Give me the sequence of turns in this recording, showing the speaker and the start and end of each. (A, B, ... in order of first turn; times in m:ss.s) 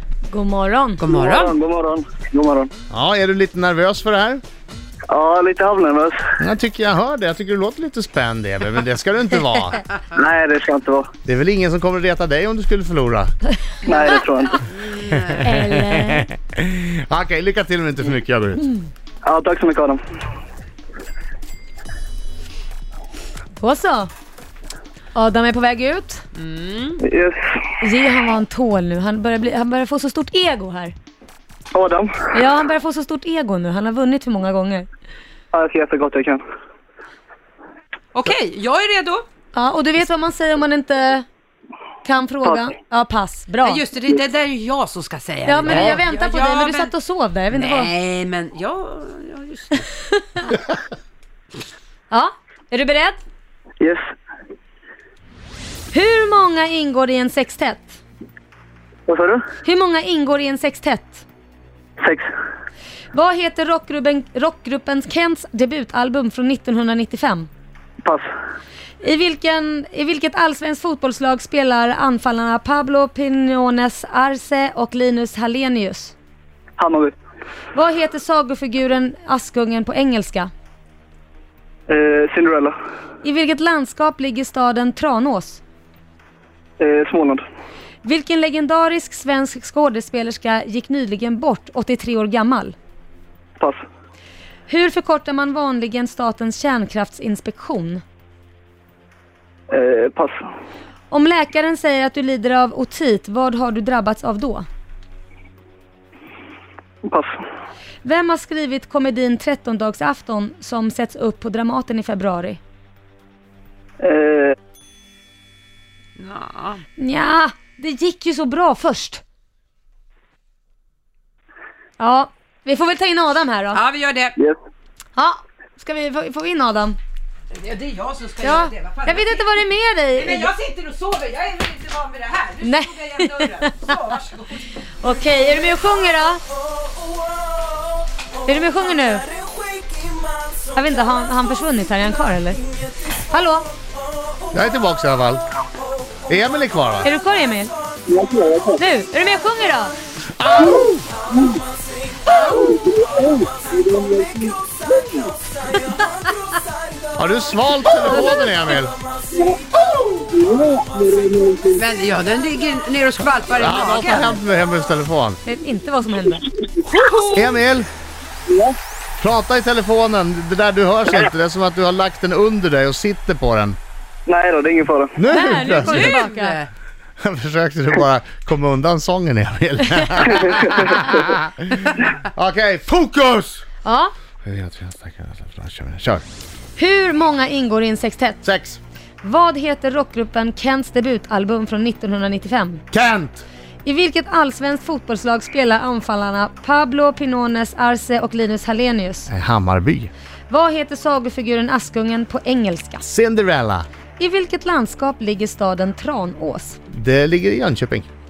0:00.3-0:01.0 A
0:01.0-0:01.6 B
0:01.1-0:02.7 C
0:02.9-0:04.4 D
0:05.1-0:06.2 C
0:06.4-0:09.8 D
0:10.1-0:11.1 C
0:11.3-0:13.3 D
0:13.8-0:14.6 C
0:14.6-0:15.6 B
0:15.4-0:16.3 A
0:15.5-0:18.7 D
0:19.2-0:20.0 C
0:23.6-0:24.1 A
0:25.2-0:26.2 A
0:26.4-0:27.0 B
0:27.0-0:27.5 C
0:27.8-0:30.9 A
0:31.7-0:32.3 C
0:32.3-0:34.9 A
0:35.5-0:36.4 C
0:38.1-0:39.3 B
0:39.5-0:41.3 A
0:42.0-0:43.8 A
0:43.6-0:46.9 B
0:45.5-0:47.9 A
0:45.7-0:46.0 D
0:47.5-0:49.9 B
0:50.1-0:50.6 A
0:52.1-0:53.2 A
0:55.9-0:58.0 A
0:59.1-0:59.5 C
0:59.6-1:01.2 A
1:02.0-1:02.2 C
1:03.1-1:07.5 A
1:09.0-1:16.1 A
1:16.8-1:17.1 C
1:17.7-1:20.5 A
1:21.9-1:22.8 C
1:23.2-1:25.6 A
1:26.8-1:27.4 C
1:28.0-1:32.8 A
1:34.7-1:38.0 A
1:39.7-1:40.4 C
1:41.1-1:44.7 A
1:47.0-1:47.4 C
1:48.0-1:52.6 A
1:54.0-1:54.6 C
1:56.2-1:56.8 B
1:57.0-1:59.2 A
2:02.0-2:03.8 A
2:03.7-2:04.4 B
2:05.2-2:07.0 A
2:07.5-2:09.4 B
2:08.4-2:10.5 A
2:10.2-2:14.7 B
2:12.6-2:14.0 A
2:15.0-2:16.4 A
2:18.4-2:19.3 A
2:19.7-2:20.0 B
2:20.7-2:23.7 A
2:24.5-2:25.4 D
2:26.3-2:27.1 D
2:27.0-2:27.7 A
2:28.1-2:28.7 C
2:28.8-2:29.9 A
2:30.4-2:31.0 D
2:37.2-2:39.0 D
2:41.7-2:44.4 B
2:43.6-2:45.4 D
2:45.4-2:46.5 A
2:46.8-2:47.6 B
2:47.3-2:47.9 D
2:48.5-2:48.7 C
2:49.2-2:53.8 D
2:54.3-2:55.2 C
2:55.2-2:56.2 D
2:55.3-2:56.6 A
2:55.6-2:56.7 B
2:57.2-3:03.7 D
3:03.8-3:04.1 A
3:04.4-3:06.2 D
3:06.8-3:08.4 A
3:08.4-3:08.8 D
3:09.2-3:12.8 A
3:12.9-3:13.4 D
3:13.8-3:19.3 A
3:19.3-3:20.1 D
3:20.5-3:23.0 A
3:23.0-3:23.9 D
3:24.2-3:26.8 A
3:26.9-3:28.1 D